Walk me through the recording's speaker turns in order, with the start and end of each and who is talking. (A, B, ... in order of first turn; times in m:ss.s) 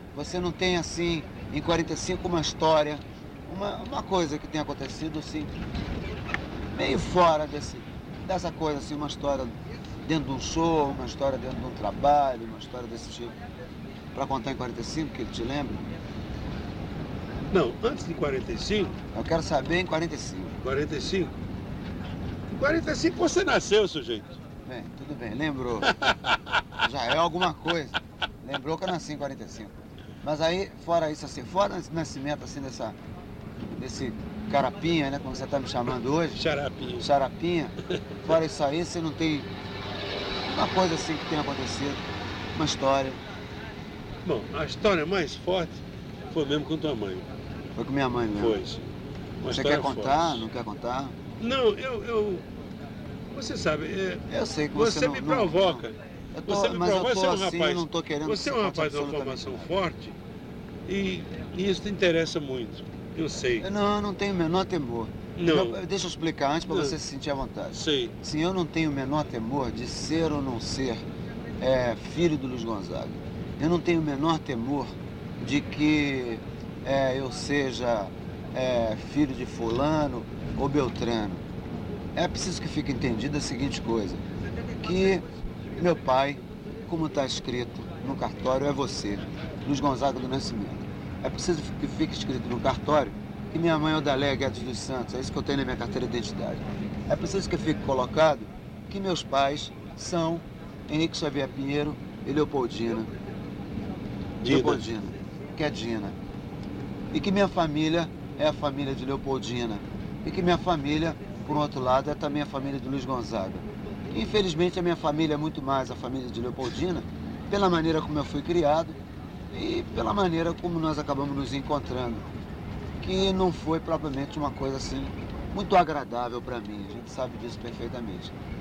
0:00.1-0:05.5 A
0:06.7-0:13.4 A
0:14.1-0:15.8 A
0:17.5-0:19.0 B
0:19.1-0:20.6 A
0:20.6-0:21.4 B
0:22.5-0:24.3 B
0:24.6-0:26.0 A
0:25.8-0:26.6 B
0:26.8-0:33.0 A
0:33.8-0:36.4 A
0:36.3-0:37.1 B
0:37.0-0:39.5 A
0:40.5-0:42.0 A
0:42.5-0:43.2 A
0:44.2-0:47.3 B
0:47.8-0:48.6 A
0:48.3-0:48.9 B
0:49.4-0:50.4 B
0:49.5-0:51.2 A
0:51.4-0:52.4 B
0:53.3-1:00.2 B
0:54.3-0:59.7 A
1:00.8-1:03.7 B
1:03.6-1:11.0 A
1:05.4-1:05.8 B
1:06.7-1:07.0 B
1:07.7-1:08.2 B
1:11.6-1:21.4 A
1:22.1-1:24.2 A
1:24.8-1:25.2 A
1:25.8-1:43.1 A
1:44.4-1:44.8 B
1:44.4-1:46.1 A
1:47.1-1:59.0 A
1:59.5-2:02.2 A
2:03.0-2:08.3 A